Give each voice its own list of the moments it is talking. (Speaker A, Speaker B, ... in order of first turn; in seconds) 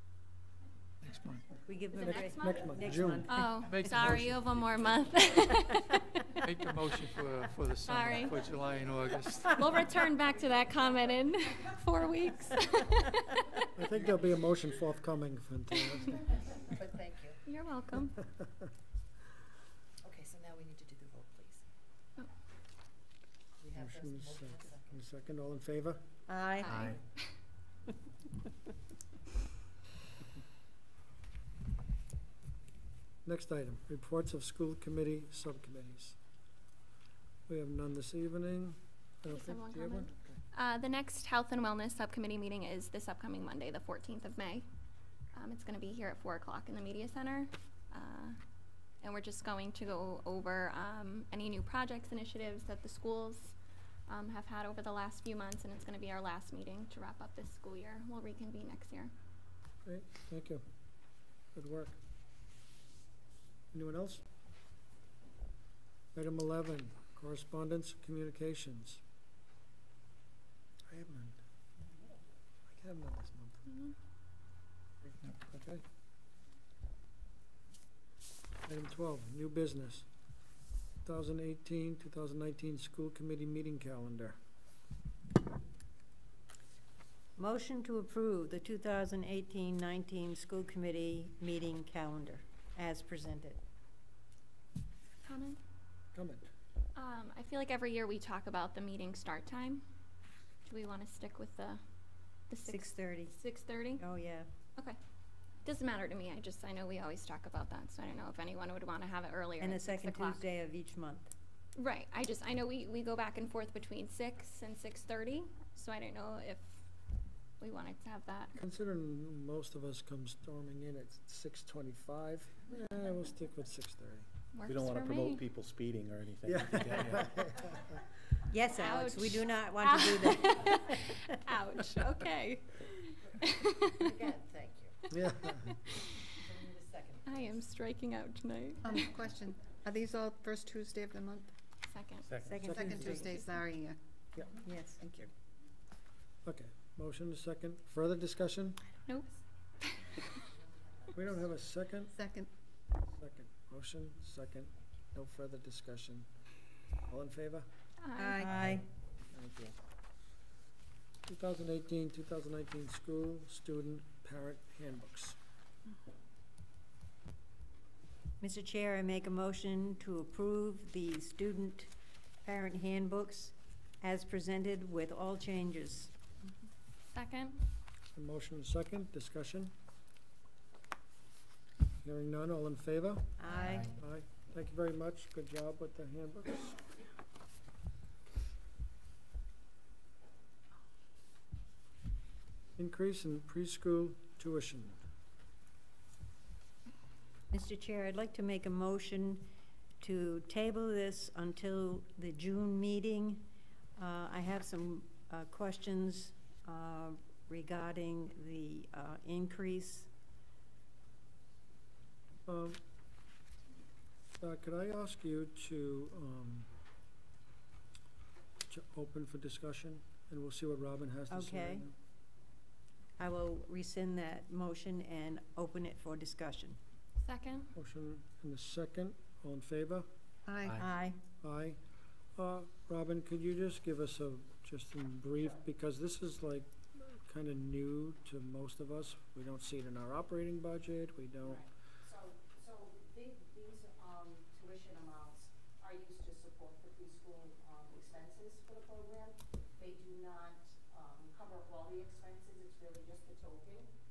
Speaker A: 1.0-1.4, 3.6-4.3, 6.4-9.6
Speaker B: 1.7-3.9, 26.3-26.8, 87.4-93.6, 102.7-103.3, 104.0-104.5, 109.6-111.3, 128.5-131.0, 142.4-142.8, 144.6-145.0, 158.4-158.8, 168.4-171.9, 172.4-176.1, 183.4-183.9, 197.5-199.4, 200.0-210.1, 221.3-221.9, 223.2-226.8, 230.7-231.2
Speaker C: 1.9-6.2, 7.9-8.5, 9.5-13.6, 17.4-18.2, 26.6-27.2, 39.3-44.7, 45.3-48.4, 49.0-53.5, 54.1-59.1, 95.2-95.6, 97.0-99.8, 100.7-101.8, 102.5-104.0, 105.6-110.5, 111.8-116.8, 117.6-118.6, 124.5-125.4, 128.8-134.2, 135.7-136.1, 137.2-139.1, 141.8-142.3, 158.0-158.5, 177.1-177.6, 227.2-227.7
Speaker D: 2.4-3.3, 13.8-16.3, 23.8-26.0, 33.2-36.2, 37.5-40.4, 59.8-60.6, 61.5-62.0, 63.7-64.2, 66.1-69.0, 70.9-71.4, 72.7-73.7, 75.3-75.8, 78.7-80.1, 81.0-84.4, 96.1-96.5, 118.6-124.3, 126.5-127.9, 135.1-135.8, 142.5-143.4, 146.4-148.8, 151.1-152.2, 153.1-156.3, 157.1-157.7, 159.3-159.7, 161.2-165.4, 178.1-179.7, 182.0-186.8, 192.8-195.0, 212.4-212.8, 214.4-216.7, 218.7-221.9, 227.8-230.1, 231.4-231.8, 232.3-241.6
Speaker E: 16.9-17.3, 20.1-21.5, 134.0-134.9, 136.4-137.2
Speaker F: 124.6-127.4, 142.3-142.6
Speaker G: 138.8-141.5, 142.8-144.0, 145.0-145.3, 152.2-152.5, 158.2-158.6, 230.5-230.7
Speaker H: 241.4-253.9